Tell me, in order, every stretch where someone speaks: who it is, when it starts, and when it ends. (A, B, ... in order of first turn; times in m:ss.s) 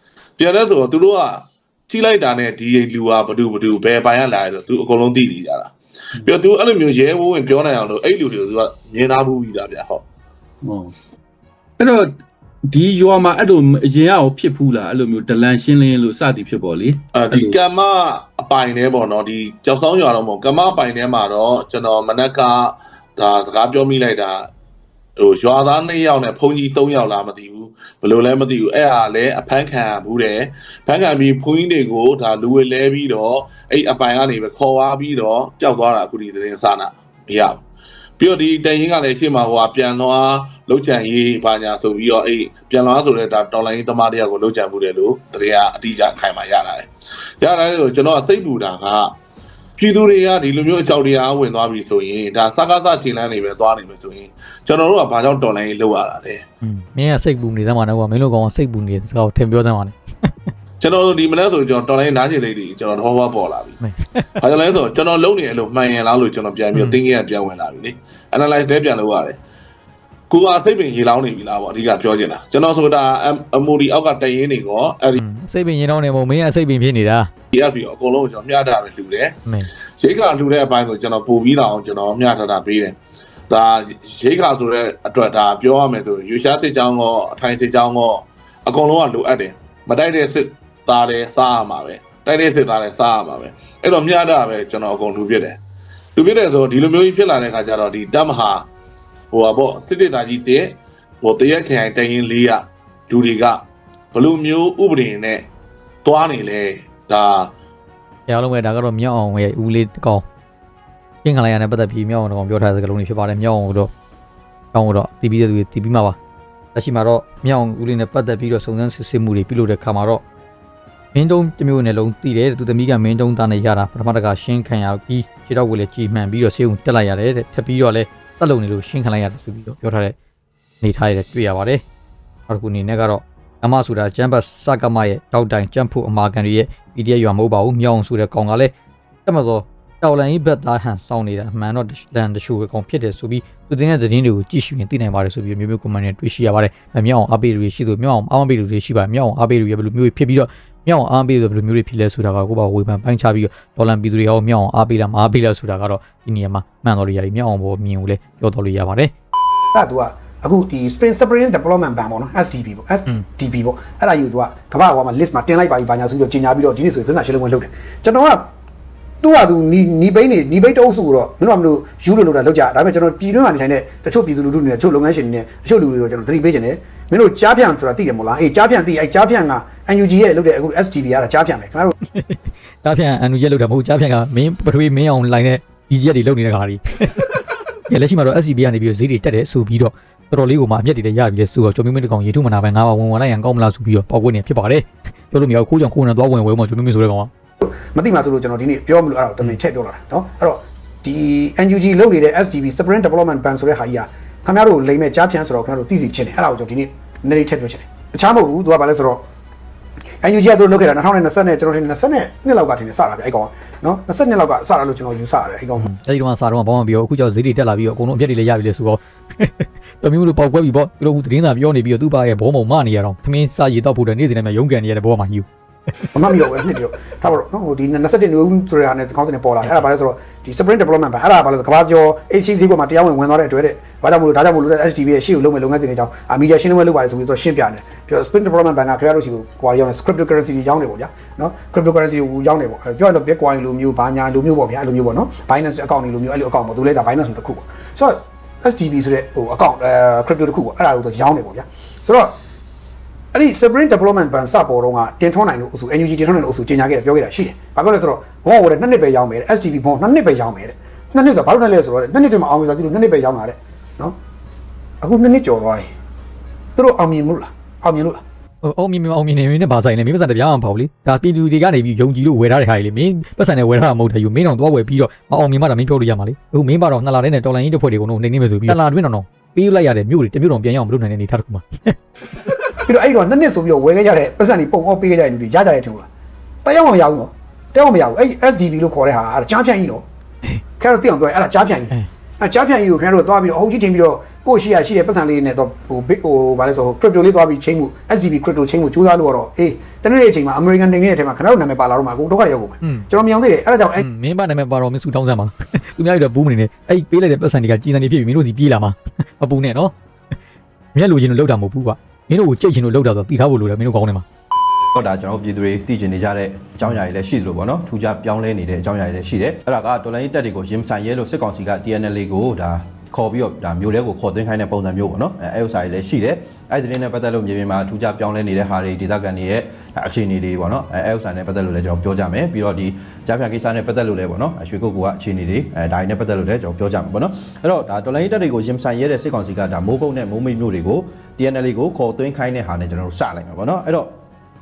0:00.4-0:10.0 A
0:10.6-0:10.9 B
0:11.8-0:12.2 B
0:12.7-0:17.6 B
0:17.1-0:24.5 A
0:25.2-0:37.6 A
0:38.2-0:46.9 A
0:47.4-0:49.2 A
0:49.8-0:56.4 A
0:56.6-1:00.5 C
1:00.8-1:03.8 A
1:03.8-1:04.4 C
1:04.4-1:09.4 A
1:10.3-1:15.2 A
1:15.2-1:17.3 C
1:17.5-1:19.4 A
1:20.0-1:23.0 A
1:23.5-1:35.6 A
1:36.2-1:38.7 A
1:39.3-1:43.6 A
1:44.1-1:45.4 A
1:46.0-1:47.5 A
1:48.3-1:50.2 C
1:51.2-1:53.9 C
1:54.7-1:56.2 C
1:56.8-2:00.2 C
2:01.1-2:10.1 C
2:10.8-2:11.8 C
2:12.5-2:18.7 C
2:19.3-2:39.1 C
2:39.7-2:48.5 D
2:49.2-3:02.0 D
3:02.1-3:17.3 C
3:17.6-3:29.2 D
3:30.2-3:35.9 D
3:35.8-3:45.5 C
3:46.1-4:12.4 D
4:13.3-4:24.2 D
4:25.0-4:25.9 D
4:26.8-4:28.2 D
4:28.6-4:42.0 C
4:42.8-4:46.1 D
4:46.6-4:50.0 D
4:50.8-5:04.0 D
5:02.8-5:03.1 C
5:04.0-5:09.9 C
5:11.0-5:14.2 C
5:14.9-5:44.1 E